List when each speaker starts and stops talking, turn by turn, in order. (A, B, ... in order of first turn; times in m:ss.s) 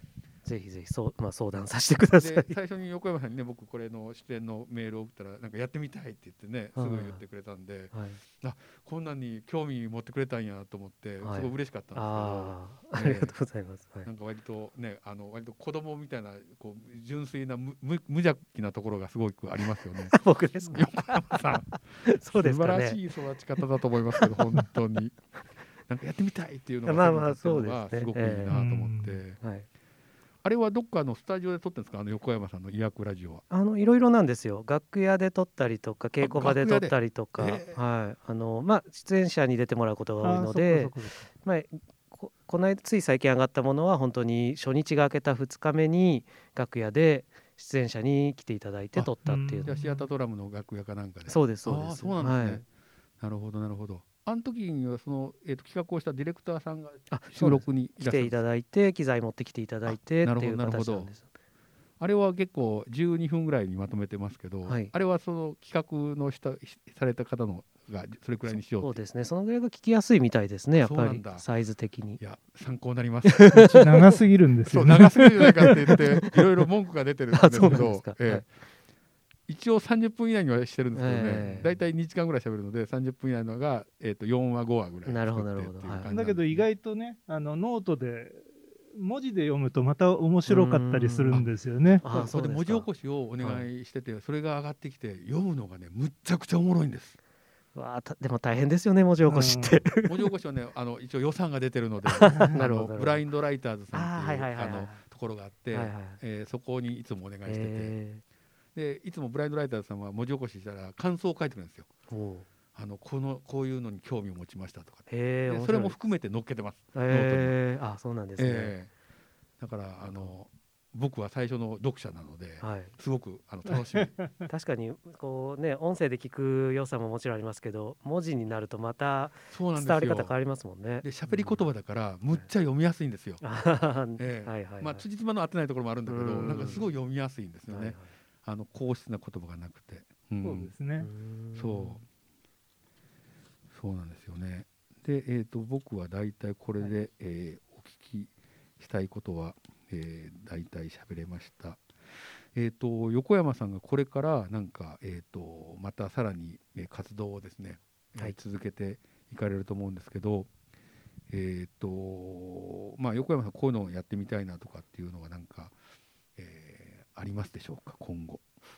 0:00.4-0:02.6 A
0:02.2-0:13.3 B
0:06.7-0:07.2 A
0:07.9-0:08.2 A
0:11.2-0:14.1 A
0:14.0-0:25.2 B
0:19.7-0:23.0 A
0:24.1-0:24.4 A
0:25.9-0:29.4 B
0:26.8-0:28.6 A
0:28.5-0:29.2 C
0:29.4-0:29.7 A
0:30.4-0:33.4 B
0:33.5-0:49.7 A
0:36.2-0:37.8 B
0:40.2-0:41.3 C
0:49.2-0:50.1 C
0:49.6-0:52.6 B
0:51.2-0:52.6 A
0:53.2-0:58.4 B
0:57.1-1:01.2 A
0:59.8-1:01.1 B
1:02.0-1:09.0 B
1:04.6-1:04.9 A
1:08.5-1:12.2 A
1:10.8-1:11.4 B
1:12.2-1:13.9 B
1:13.3-1:14.1 A
1:13.8-1:15.2 C
1:14.7-1:18.5 B
1:15.9-1:16.3 A
1:17.3-1:18.4 A
1:19.5-1:26.6 B
1:20.9-1:21.8 A
1:25.0-1:26.1 A
1:26.0-1:32.0 C
1:30.4-1:32.9 A
1:32.0-1:37.2 B
1:33.4-1:33.7 A
1:37.7-1:40.3 A
1:39.2-1:39.8 C
1:40.0-1:47.9 B
1:42.0-1:43.2 A
1:43.9-1:45.0 A
1:45.7-1:46.2 A
1:47.4-1:48.2 A
1:48.7-1:51.9 B
1:52.1-1:52.5 A
1:52.7-1:57.6 B
1:55.1-1:56.0 A
1:56.9-1:58.8 A
1:58.4-1:58.9 B
1:59.6-2:04.1 B
2:00.0-2:00.3 A
2:02.6-2:02.9 A
2:04.5-2:11.7 A
2:09.5-2:10.4 B
2:11.0-2:13.4 B
2:13.4-2:15.0 A
2:14.2-2:20.7 B
2:16.1-2:16.9 A
2:17.7-2:18.1 A
2:20.4-2:21.1 C
2:21.0-2:22.0 A
2:21.5-2:22.0 B
2:23.7-2:31.8 B
2:32.5-2:40.5 B
2:41.3-2:45.7 B
2:46.4-2:48.4 B